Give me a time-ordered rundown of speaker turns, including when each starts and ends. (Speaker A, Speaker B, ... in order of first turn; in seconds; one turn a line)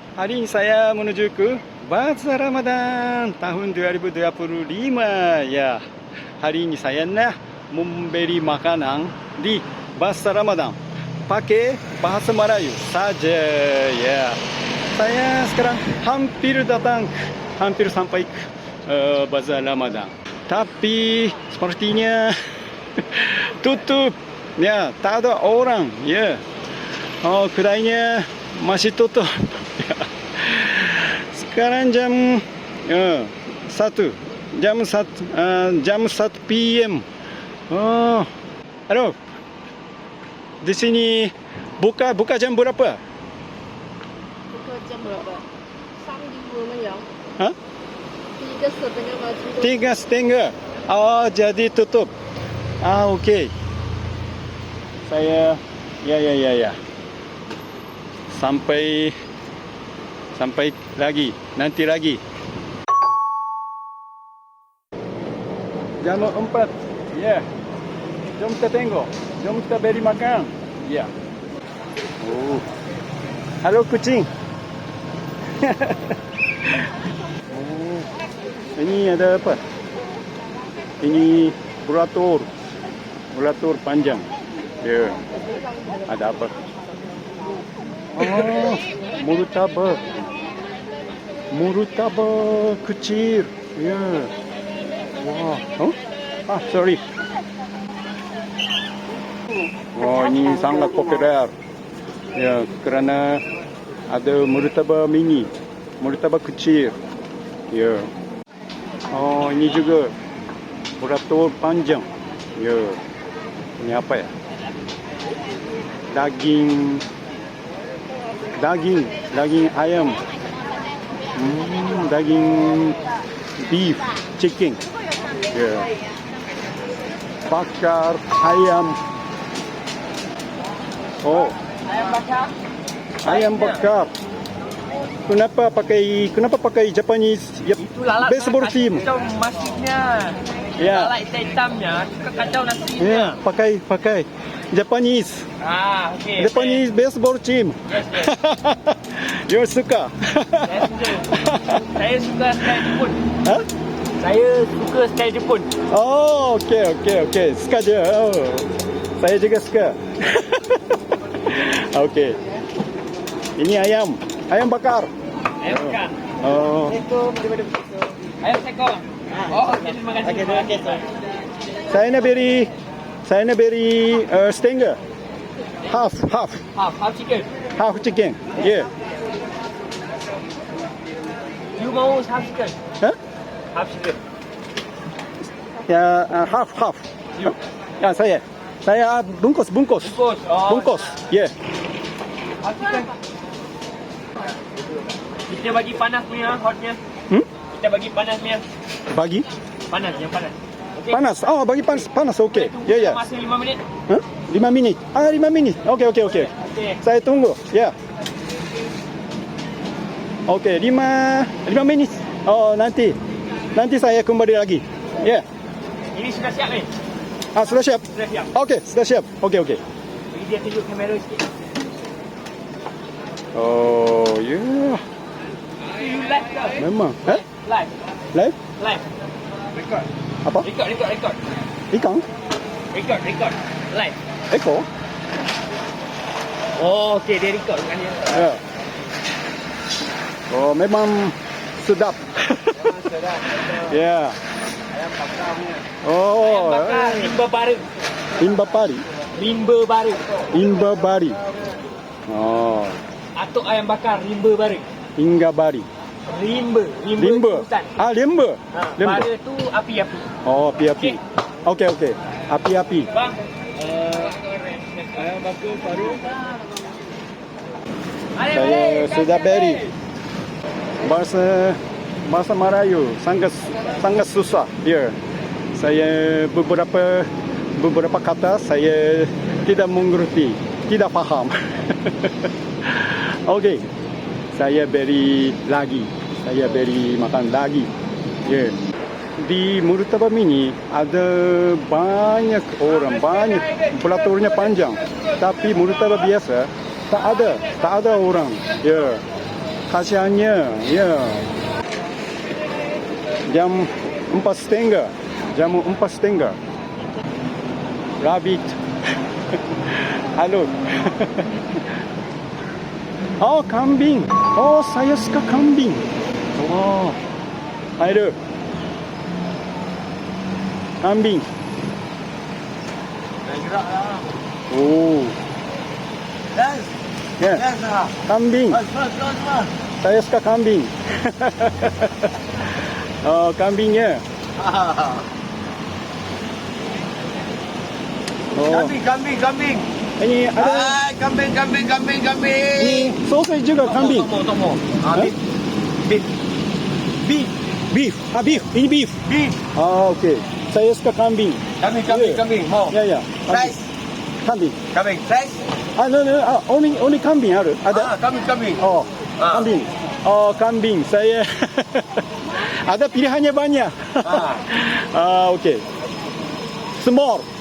Speaker A: 0.2-5.8
Speaker A: 6.4-22.4
Speaker A: 23.0-26.4
Speaker A: 27.2-37.1
Speaker A: 37.7-38.3
Speaker A: 38.9-39.2
Speaker A: 40.6-43.0
Speaker B: 44.5-45.5
Speaker B: 46.0-47.1
Speaker B: 48.4-49.8
Speaker A: 49.5-52.1
Speaker A: 52.8-53.5
Speaker A: 55.1-56.8
Speaker A: 58.3-59.1
Speaker A: 60.4-62.2
Speaker A: 66.0-67.5
Speaker A: 68.4-71.1
Speaker A: 72.2-72.7
Speaker A: 73.6-74.3
Speaker A: 75.6-76.2
Speaker A: 77.5-78.1
Speaker A: 78.8-79.6
Speaker A: 81.0-82.5
Speaker A: 83.3-84.3
Speaker A: 84.8-85.2
Speaker A: 86.1-86.5
Speaker A: 88.1-90.0
Speaker A: 91.5-94.3
Speaker A: 95.2-96.0
Speaker A: 96.5-97.0
Speaker A: 99.9-101.5
Speaker A: 102.3-103.4
Speaker A: 104.1-107.0
Speaker A: 107.7-108.1
Speaker A: 109.1-110.1
Speaker A: 111.0-113.0
Speaker A: 113.8-114.3
Speaker A: 116.1-117.1
Speaker A: 118.5-120.2
Speaker A: 121.3-123.0
Speaker A: 123.6-124.8
Speaker A: 125.5-125.9
Speaker A: 127.5-129.0
Speaker A: 131.2-131.6
Speaker C: 131.9-132.5
Speaker A: 133.2-134.1
Speaker C: 133.2-133.9
Speaker A: 135.3-139.1
Speaker C: 137.8-143.4
Speaker A: 140.8-141.2
Speaker A: 143.0-145.5
Speaker C: 145.6-146.8
Speaker A: 146.4-151.8
Speaker C: 147.9-148.3
Speaker C: 150.6-153.2
Speaker C: 154.2-155.7
Speaker A: 155.9-160.8
Speaker A: 161.4-162.4
Speaker A: 163.6-165.1
Speaker C: 165.6-166.1
Speaker A: 165.6-167.0
Speaker D: 167.0-167.8
Speaker C: 168.4-171.1
Speaker A: 171.9-172.7
Speaker A: 173.3-175.0
Speaker A: 175.8-176.7
Speaker C: 176.8-177.5
Speaker A: 177.8-178.9
Speaker C: 181.8-182.8
Speaker C: 183.7-184.2
Speaker A: 185.9-191.5
Speaker C: 190.0-191.0
Speaker C: 192.6-193.1
Speaker C: 195.5-197.0
Speaker C: 197.7-198.7
Speaker A: 199.1-199.5
Speaker C: 199.9-201.2
Speaker A: 201.1-203.2
Speaker C: 202.5-203.8
Speaker A: 204.1-207.9
Speaker C: 206.4-207.0
Speaker A: 210.5-213.2
Speaker A: 213.8-215.5
Speaker C: 216.1-216.9
Speaker A: 217.6-219.8
Speaker C: 218.1-218.5
Speaker C: 220.3-221.4
Speaker A: 223.5-225.0
Speaker C: 225.9-227.9
Speaker A: 226.8-227.4
Speaker C: 228.8-229.1
Speaker C: 229.8-230.1
Speaker C: 230.6-231.4
Speaker A: 231.9-232.2
Speaker C: 232.9-234.2
Speaker A: 234.5-234.9
Speaker C: 236.8-238.5
Speaker A: 238.3-238.6
Speaker A: 240.5-242.9
Speaker D: 242.9-243.8
Speaker A: 243.5-244.4
Speaker D: 244.9-245.8
Speaker A: 246.0-247.3
Speaker C: 246.4-247.9
Speaker A: 248.4-249.1
Speaker C: 249.3-250.4
Speaker A: 250.5-251.4
Speaker A: 252.3-253.0
Speaker C: 253.3-254.9
Speaker A: 255.2-255.9
Speaker C: 256.3-257.9
Speaker A: 257.2-259.3
Speaker C: 258.7-260.3
Speaker A: 260.4-263.1
Speaker C: 263.1-266.3
Speaker C: 268.4-269.9
Speaker A: 268.5-269.8
Speaker A: 271.0-275.2
Speaker A: 275.7-283.9
Speaker A: 284.5-287.9
Speaker A: 288.4-288.8
Speaker A: 289.4-299.2
Speaker A: 299.9-301.5
Speaker A: 303.5-306.6
Speaker A: 308.2-308.8
Speaker A: 309.9-311.5
Speaker A: 313.4-317.2
Speaker A: 318.0-318.4
Speaker A: 321.0-321.5
Speaker D: 323.4-324.3
Speaker A: 324.7-325.4
Speaker D: 326.5-326.9
Speaker A: 327.4-327.7
Speaker D: 327.6-328.1
Speaker A: 328.2-328.8
Speaker D: 328.7-329.7
Speaker A: 330.0-332.7
Speaker A: 333.2-334.2
Speaker D: 334.6-335.3
Speaker A: 338.6-339.0
Speaker D: 338.7-339.9
Speaker A: 340.2-341.0
Speaker D: 340.6-343.1
Speaker A: 342.8-344.3
Speaker D: 343.8-345.4
Speaker D: 346.0-346.3
Speaker A: 347.3-349.2
Speaker D: 349.3-349.6
Speaker A: 349.7-353.8
Speaker D: 351.8-353.9
Speaker A: 354.4-354.8
Speaker D: 354.9-355.6
Speaker A: 356.0-358.2
Speaker D: 357.9-358.8
Speaker A: 358.8-365.9
Speaker D: 359.4-359.7
Speaker D: 364.2-364.6
Speaker A: 367.0-367.5